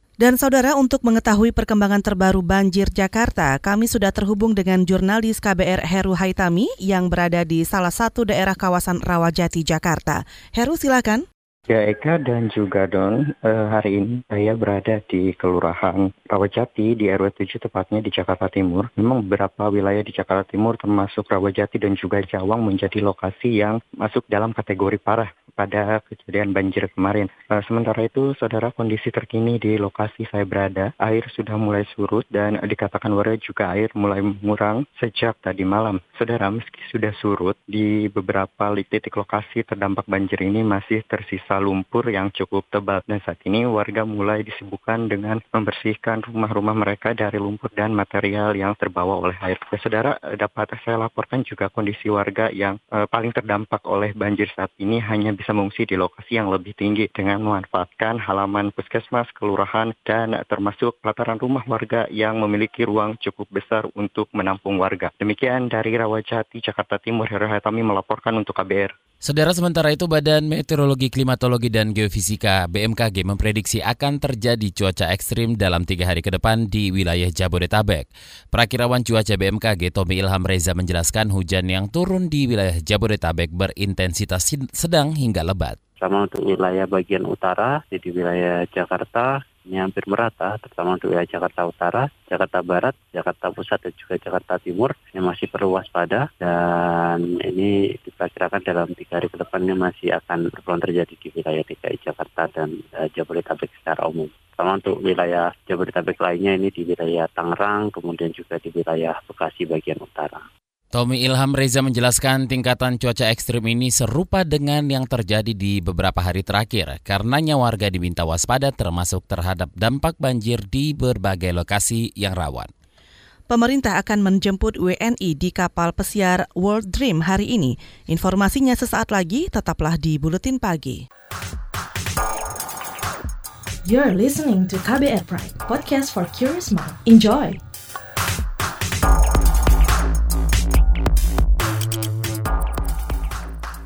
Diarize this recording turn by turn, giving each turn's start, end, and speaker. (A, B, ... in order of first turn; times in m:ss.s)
0:00.2-0:11.2 A
0:11.7-1:08.9 B
1:09.2-1:25.8 C
1:26.0-1:50.4 D
1:50.9-2:02.7 C
2:03.5-2:11.0 A
2:13.8-2:17.6 E